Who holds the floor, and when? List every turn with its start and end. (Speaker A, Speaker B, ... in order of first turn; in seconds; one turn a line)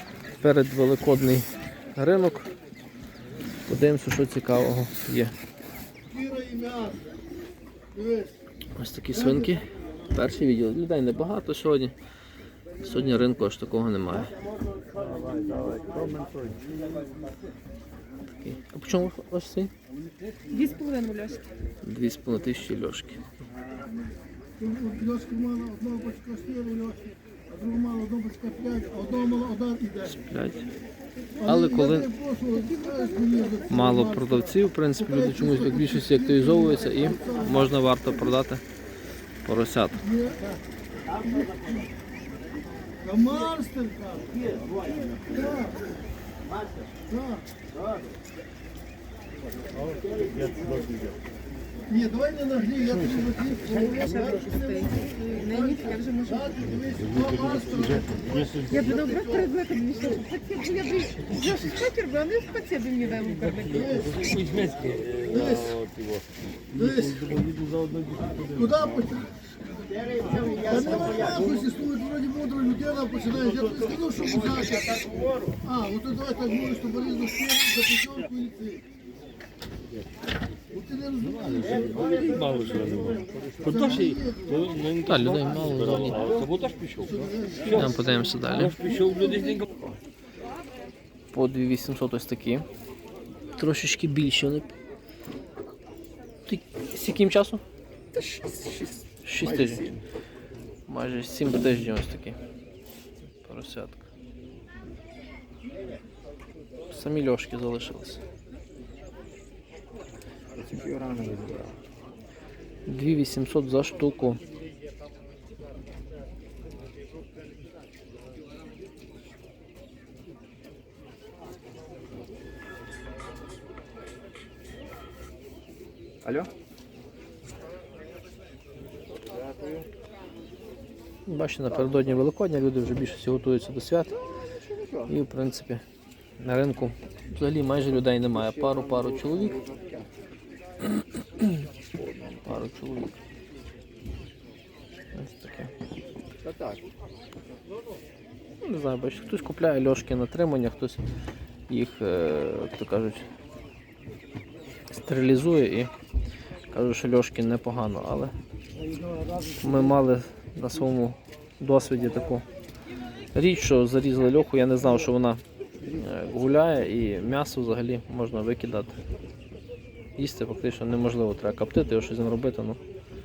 Speaker A: 0.4-2.5
Speaker A: 3.7-5.3
Speaker B: 6.3-6.8
Speaker A: 8.8-11.9
Speaker A: 12.8-14.3
Speaker C: 15.3-16.6
Speaker A: 18.4-19.7
Speaker D: 20.5-21.4
Speaker A: 21.8-23.2
Speaker B: 24.6-26.9
Speaker B: 27.6-29.8
Speaker A: 30.0-30.7
Speaker A: 31.4-32.1
Speaker B: 32.2-33.7
Speaker D: 32.7-33.5
Speaker A: 33.7-38.6
Speaker A: 39.5-40.0
Speaker B: 43.2-44.2
Speaker B: 52.2-53.6
Speaker D: 53.8-56.9
Speaker B: 57.1-58.3
Speaker D: 58.7-64.6
Speaker B: 65.3-65.8
Speaker B: 67.0-67.3
Speaker B: 68.7-69.3
Speaker B: 70.7-74.9
Speaker B: 75.7-78.6
Speaker B: 80.9-82.1
Speaker B: 84.0-84.3
Speaker A: 85.0-86.4
Speaker A: 87.7-89.0
Speaker A: 91.3-92.7
Speaker A: 93.6-94.7
Speaker A: 96.5-97.6
Speaker C: 98.2-98.9
Speaker A: 99.2-99.9
Speaker A: 100.9-102.4
Speaker A: 103.3-104.0
Speaker A: 106.9-108.2
Speaker C: 110.6-111.8
Speaker A: 112.9-114.4
Speaker A: 131.3-134.2
Speaker A: 135.1-135.8
Speaker A: 136.4-139.6
Speaker C: 139.6-140.0
Speaker C: 142.0-142.4
Speaker A: 142.4-143.2
Speaker A: 145.2-145.7
Speaker A: 148.6-151.0
Speaker A: 151.7-153.2
Speaker A: 154.9-155.9
Speaker A: 156.7-158.3
Speaker A: 159.6-162.4
Speaker A: 163.3-169.0
Speaker A: 170.2-172.8